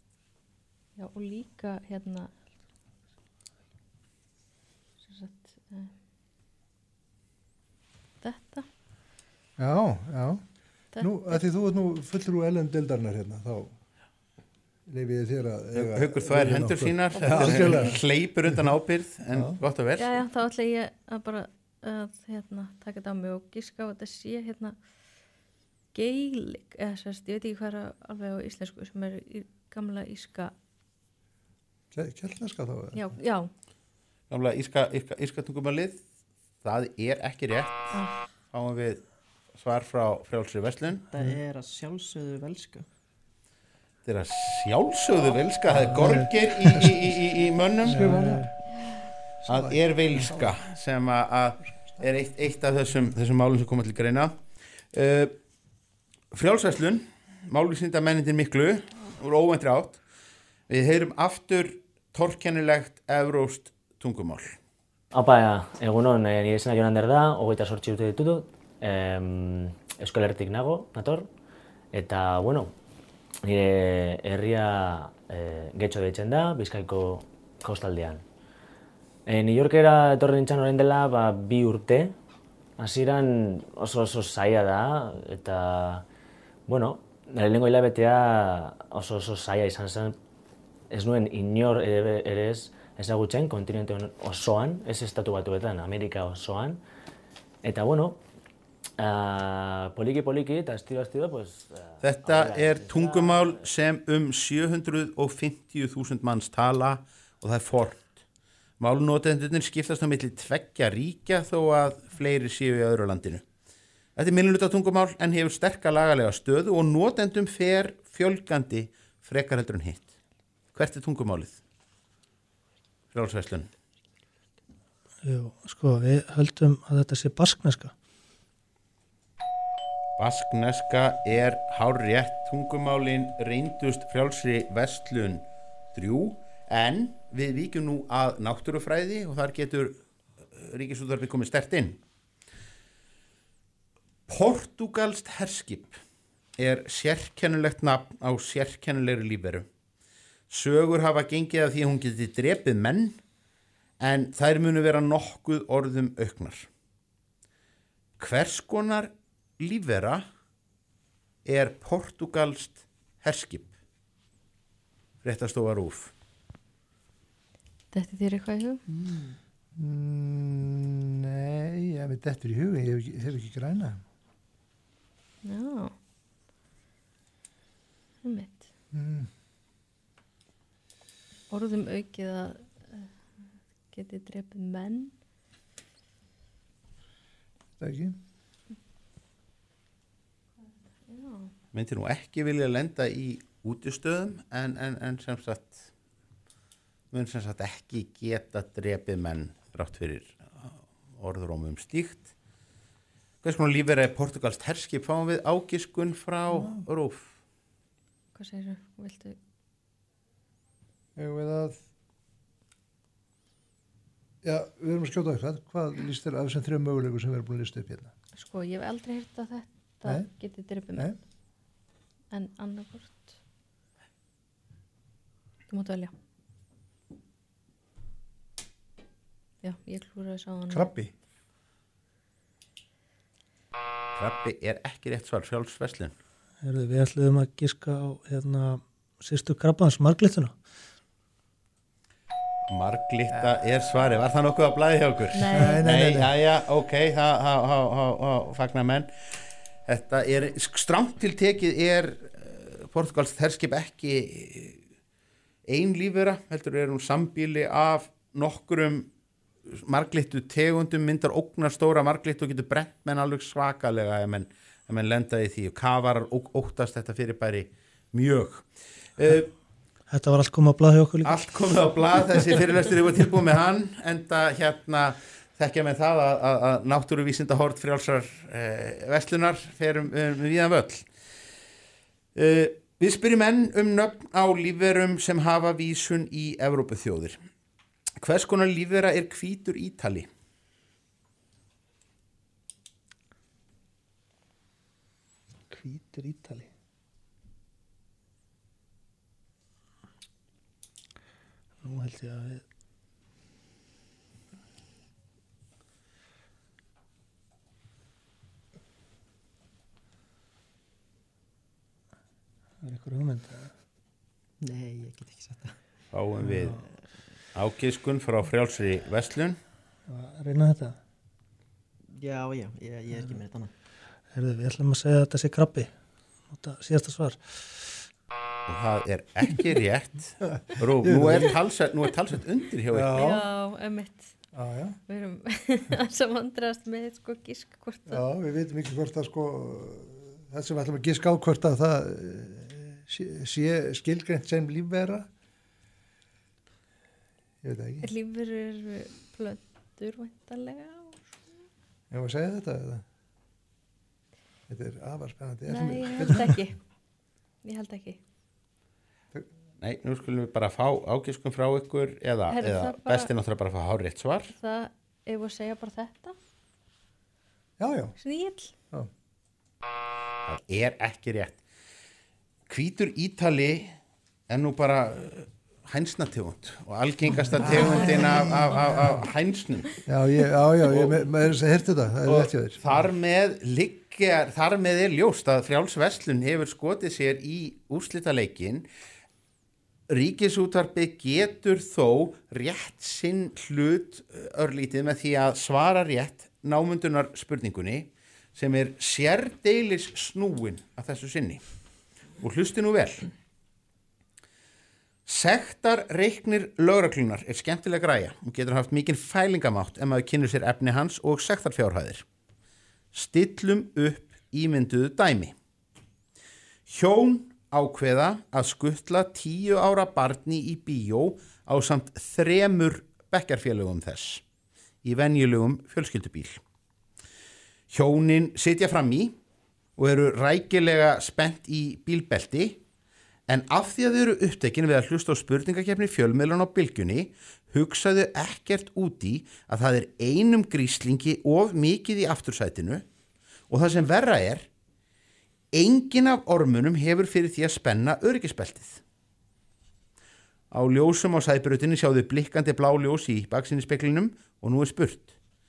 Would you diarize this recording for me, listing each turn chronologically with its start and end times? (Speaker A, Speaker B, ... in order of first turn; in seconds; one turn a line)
Speaker A: 1.0-2.3
Speaker A: 5.1-5.9
Speaker A: 8.2-8.7
Speaker B: 9.6-10.4
Speaker A: 10.9-11.4
Speaker B: 11.0-13.8
Speaker B: 14.9-18.0
Speaker C: 15.8-20.1
Speaker B: 19.3-19.6
Speaker A: 20.0-24.8
Speaker A: 25.9-30.5
Speaker B: 31.9-33.0
Speaker A: 33.0-33.5
Speaker C: 34.3-36.0
Speaker C: 36.6-37.9
Speaker C: 38.5-39.0
Speaker C: 39.6-41.0
Speaker D: 41.1-42.9
Speaker C: 44.0-48.1
Speaker E: 45.9-46.9
Speaker B: 47.9-48.5
Speaker E: 47.9-48.5
Speaker B: 49.4-50.5
Speaker C: 49.5-54.4
Speaker C: 54.9-55.3
Speaker C: 56.3-60.0
Speaker C: 60.7-64.6
Speaker F: 65.1-71.3
Speaker F: 71.9-72.7
Speaker F: 73.4-78.2
Speaker F: 79.3-82.2
Speaker F: 82.8-86.1
Speaker F: 86.7-90.2
Speaker F: 90.9-96.8
Speaker F: 97.6-98.2
Speaker F: 99.0-103.7
Speaker C: 102.0-108.2
Speaker C: 108.8-113.4
Speaker C: 114.2-120.1
Speaker C: 120.7-121.6
Speaker C: 123.1-123.7
Speaker E: 125.2-127.9
Speaker C: 130.2-140.0
Speaker C: 140.6-142.0
Speaker C: 144.3-146.0
Speaker C: 146.6-149.7
Speaker C: 150.5-153.2
Speaker C: 154.0-156.7
Speaker C: 158.2-160.3
Speaker C: 161.4-163.7
Speaker C: 165.2-166.1
Speaker A: 167.9-168.8
Speaker B: 168.9-174.0
Speaker A: 175.4-175.9
Speaker A: 178.2-178.7
Speaker B: 178.9-179.3
Speaker A: 181.5-185.1
Speaker B: 187.8-188.2
Speaker A: 191.0-191.5
Speaker C: 191.7-195.9
Speaker C: 197.1-202.3
Speaker C: 203.4-207.3
Speaker B: 206.5-206.8
Speaker A: 208.3-209.4
Speaker B: 211.2-211.8
Speaker B: 214.4-218.1
Speaker A: 218.4-221.2
Speaker A: 222.3-223.4
Speaker A: 225.7-226.1
Speaker A: 229.6-230.9
Speaker B: 230.7-231.1
Speaker C: 234.2-236.1
Speaker E: 236.6-240.6
Speaker C: 242.7-249.1
Speaker A: 245.3-245.8
Speaker B: 245.5-246.3
Speaker C: 249.9-254.8
Speaker C: 255.7-259.1
Speaker C: 259.7-268.7
Speaker C: 269.2-269.5
Speaker E: 270.1-271.5
Speaker C: 271.2-281.1
Speaker C: 282.4-287.4
Speaker C: 288.2-290.3
Speaker E: 295.7-296.7
Speaker E: 301.8-302.6
Speaker E: 312.8-313.7
Speaker D: 314.6-315.8
Speaker C: 316.1-316.8
Speaker E: 316.4-316.9
Speaker C: 317.5-319.6
Speaker E: 320.1-321.0
Speaker D: 322.2-323.7
Speaker E: 324.3-325.9
Speaker E: 326.5-327.8
Speaker C: 328.7-333.2
Speaker B: 331.0-331.5
Speaker B: 332.9-333.4
Speaker A: 333.1-334.3
Speaker B: 334.5-335.0
Speaker A: 335.1-338.2
Speaker B: 338.1-345.3
Speaker B: 347.6-348.1
Speaker A: 348.0-351.2
Speaker B: 352.1-353.0
Speaker B: 354.7-356.6
Speaker A: 355.7-356.8
Speaker A: 357.6-358.2
Speaker C: 359.8-364.5
Speaker A: 362.5-363.3
Speaker A: 364.5-366.4
Speaker B: 367.8-368.2
Speaker A: 368.2-368.7
Speaker C: 370.5-371.6
Speaker C: 372.7-373.9
Speaker C: 374.5-379.9
Speaker B: 377.6-378.6
Speaker A: 377.7-378.6
Speaker B: 380.1-382.8
Speaker C: 382.3-388.9
Speaker C: 390.1-401.6
Speaker C: 402.4-403.3
Speaker C: 405.3-412.2
Speaker C: 413.1-415.6
Speaker C: 416.9-424.4
Speaker C: 425.0-426.6
Speaker C: 427.9-429.4
Speaker C: 430.0-432.8
Speaker C: 433.5-443.0
Speaker C: 443.7-444.7
Speaker C: 445.7-449.0
Speaker C: 450.7-455.4